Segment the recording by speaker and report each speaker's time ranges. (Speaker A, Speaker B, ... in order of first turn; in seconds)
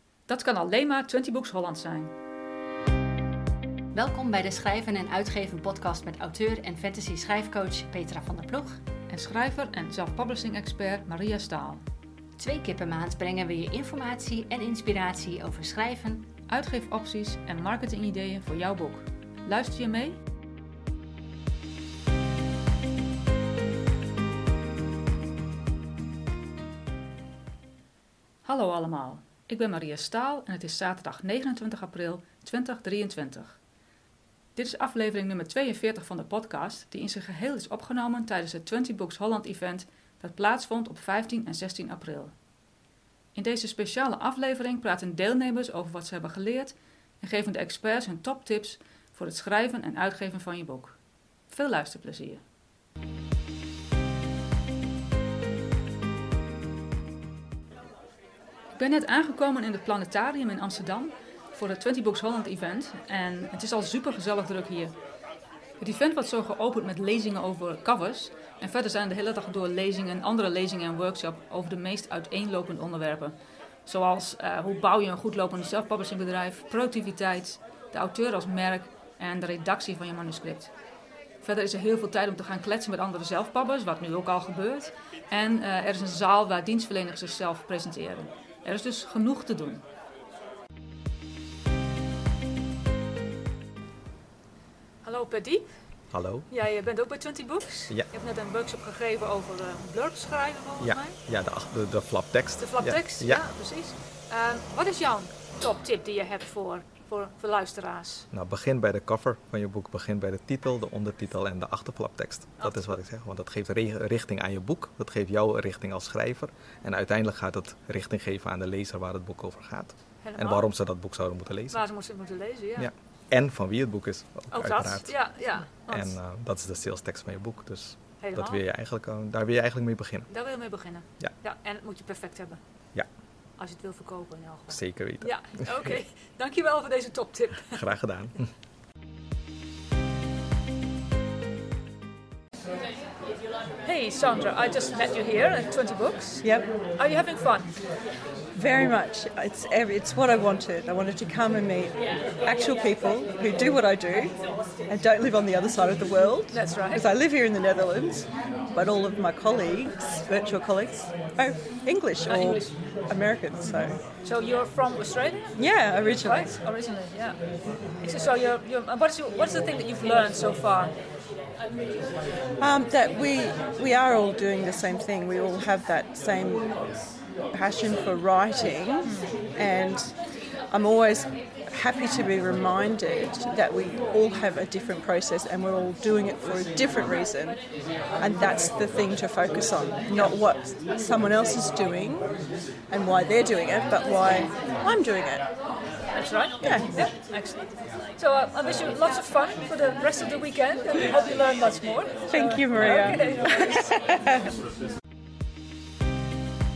Speaker A: 0.2-2.1, 9.1-11.8, 16.5-20.2, 28.4-33.6, 34.5-42.4, 43.3-52.4, 58.8-65.0, 65.8-80.8, 81.4-89.8, 95.0-101.2, 102.6-108.3, 112.6-113.0, 120.2-120.7, 121.7-122.9, 124.5-126.2, 128.2-128.6, 130.3-138.4, 143.8-147.7, 156.5-157.1, 162.3-162.8, 163.6-171.0, 179.0-179.3, 196.1-203.9
Speaker B: 3.9-8.8, 12.4-16.3
Speaker C: 96.1-96.9, 100.8-103.8, 108.3-131.4, 134.7-136.0, 137.6-138.5
Speaker D: 146.4-146.7, 148.5-164.0, 165.6-166.6, 172.6-195.6, 196.6-197.2, 202.3-204.1